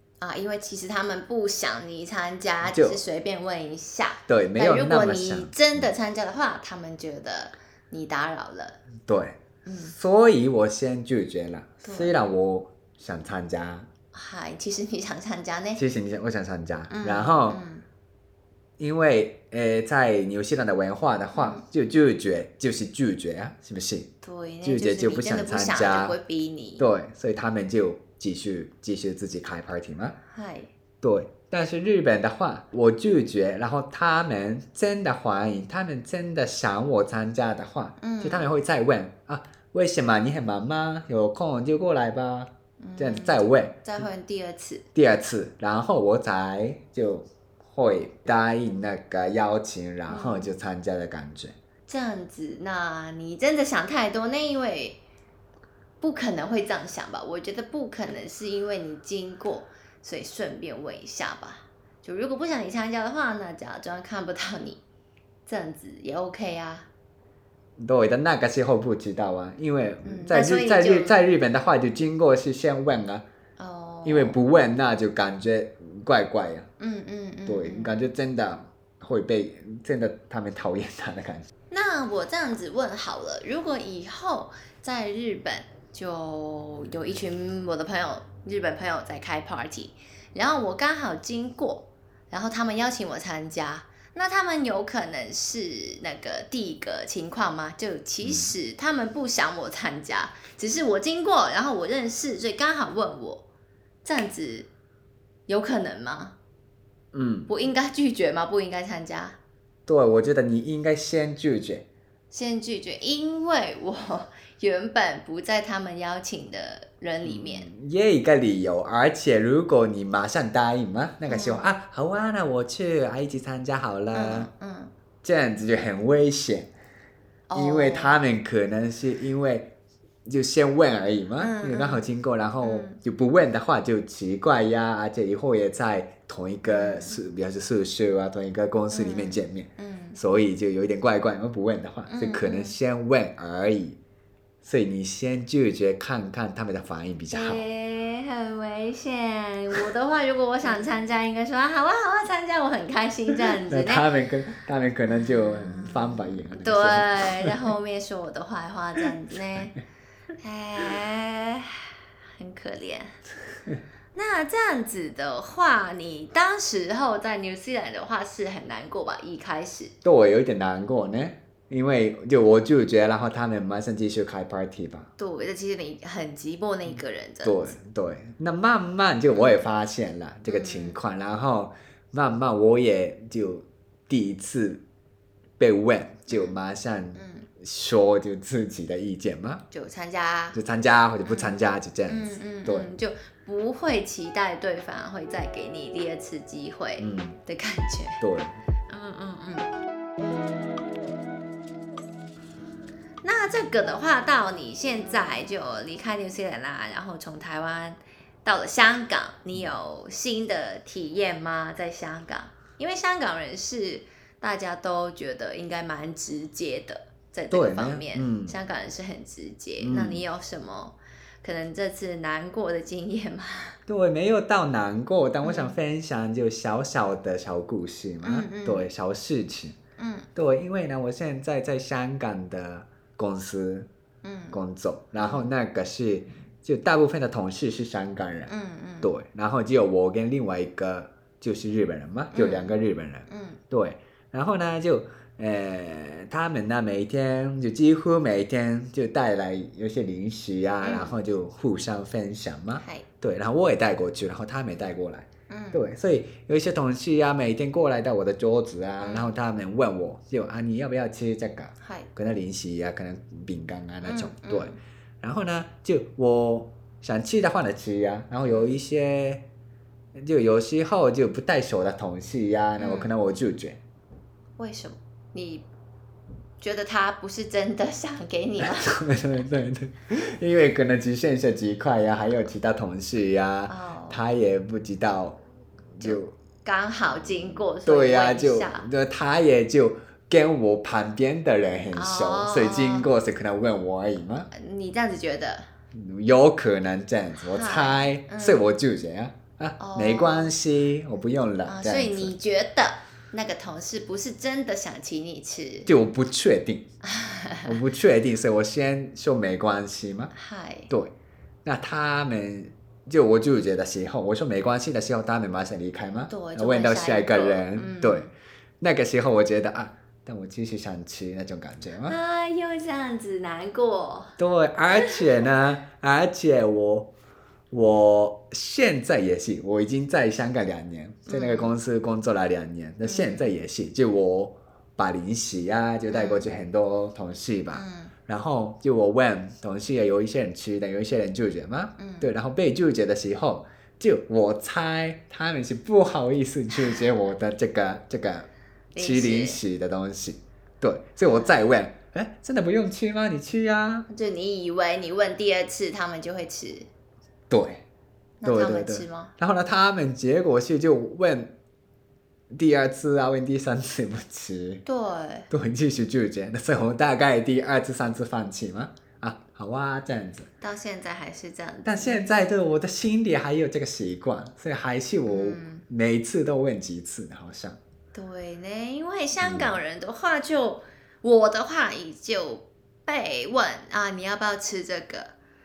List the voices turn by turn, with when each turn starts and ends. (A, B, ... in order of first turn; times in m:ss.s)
0:00.2-0:08.8 A
0:02.6-0:03.0 B
0:04.3-0:05.9 B
0:09.1-0:13.9 B
0:09.6-0:09.9 A
0:11.8-0:12.1 A
0:14.1-0:15.8 A
0:15.8-0:17.6 B
0:16.9-0:17.8 A
0:18.8-0:24.1 B
0:21.3-0:21.6 A
0:24.2-0:26.9 A
0:24.6-0:26.2 B
0:26.8-0:30.2 B
0:30.2-0:30.7 A
0:31.0-0:44.0 B
0:38.0-0:38.5 A
0:42.8-0:44.8 A
0:44.9-0:51.5 B
0:50.1-0:50.5 A
0:51.9-0:55.0 A
0:56.0-1:04.8 A
1:05.4-1:06.9 A
1:07.8-1:13.2 B
1:10.0-1:11.2 A
1:13.6-1:14.4 A
1:14.0-1:16.7 B
1:16.8-1:17.9 A
1:17.4-1:21.5 B
1:21.7-1:43.4 A
1:38.2-1:38.5 B
1:44.0-1:44.7 A
1:45.5-1:46.3 A
1:47.1-1:47.5 B
1:47.5-1:49.4 A
1:49.9-1:51.8 B
1:52.3-1:57.7 A
1:57.2-2:04.5 B
2:01.3-2:01.7 A
2:04.1-2:04.9 A
2:05.2-2:06.7 B
2:07.5-2:08.2 A
2:07.5-2:09.7 B
2:10.2-2:24.0 B
2:11.4-2:12.0 A
2:12.6-2:13.0 A
2:16.6-2:17.2 A
2:18.9-2:20.2 A
2:22.1-2:22.7 A
2:24.6-2:27.6 B
2:27.3-2:34.1 A
2:33.6-2:37.7 B
2:35.1-2:39.8 A
2:40.4-2:43.2 A
2:44.1-2:49.9 A
2:50.0-2:55.1 B
2:55.2-2:57.7 A
2:57.4-3:04.8 B
2:59.3-2:59.6 A
3:00.5-3:01.0 A
3:05.6-3:09.6 B
3:06.3-3:06.6 A
3:07.1-3:07.5 A
3:09.7-3:10.6 A
3:10.5-3:12.9 B
3:11.2-3:18.2 A
3:17.0-3:17.4 B
3:18.2-3:18.6 B
3:18.9-3:19.7 A
3:23.2-3:43.8 A
3:37.5-3:38.6 B
3:39.8-3:40.2 B
3:43.9-3:49.8 B
3:45.4-3:45.8 A
3:48.2-3:48.9 A
3:50.0-3:50.3 A
3:50.3-3:53.9 B
3:54.2-3:54.6 A
3:54.5-4:29.4 B
3:55.2-3:55.5 A
3:58.5-3:59.1 A
4:02.3-4:03.6 A
4:10.8-4:11.2 A
4:12.8-4:13.0 A
4:15.5-4:15.9 A
4:19.0-4:19.3 A
4:21.8-4:22.1 A
4:24.0-4:24.8 A
4:28.4-4:28.8 A
4:30.1-4:33.8 B
4:32.8-4:33.2 A
4:34.6-4:35.6 A
4:36.6-4:39.0 A
4:38.6-4:45.4 B
4:43.7-4:44.2 A
4:46.0-4:46.3 B
4:46.0-4:48.9 A
4:47.8-4:54.5 B
4:51.9-4:53.1 A
4:54.5-4:55.7 A
4:55.9-5:02.3 B
4:57.4-4:58.6 A
4:59.8-5:00.6 A
5:01.6-5:05.9 A
5:05.8-5:06.8 B
5:07.0-5:07.8 A
5:07.6-5:10.3 B
5:10.3-5:10.9 A
5:11.6-5:18.3 B
5:16.3-5:18.3 A
5:18.8-5:22.2 B
5:22.0-5:24.3 A
5:24.4-5:27.1 B
5:24.9-5:25.4 A
5:27.7-5:54.1 B
5:31.3-5:31.7 A
5:33.0-5:33.5 A
5:36.1-5:36.4 A
5:37.7-5:38.1 A
5:42.0-5:42.3 A
5:46.7-5:47.1 A
5:48.9-5:49.6 A
5:51.2-5:51.6 A
5:54.1-5:56.9 A
5:57.5-5:57.8 B
5:58.4-5:59.3 A
5:58.4-6:01.5 B
6:02.5-6:04.8 B
6:04.8-6:05.5 A
6:05.5-6:10.5 B
6:10.6-6:12.4 A
6:11.8-6:17.8 B
6:15.2-6:15.8 A
6:18.1-6:25.3 A
6:19.4-6:19.8 B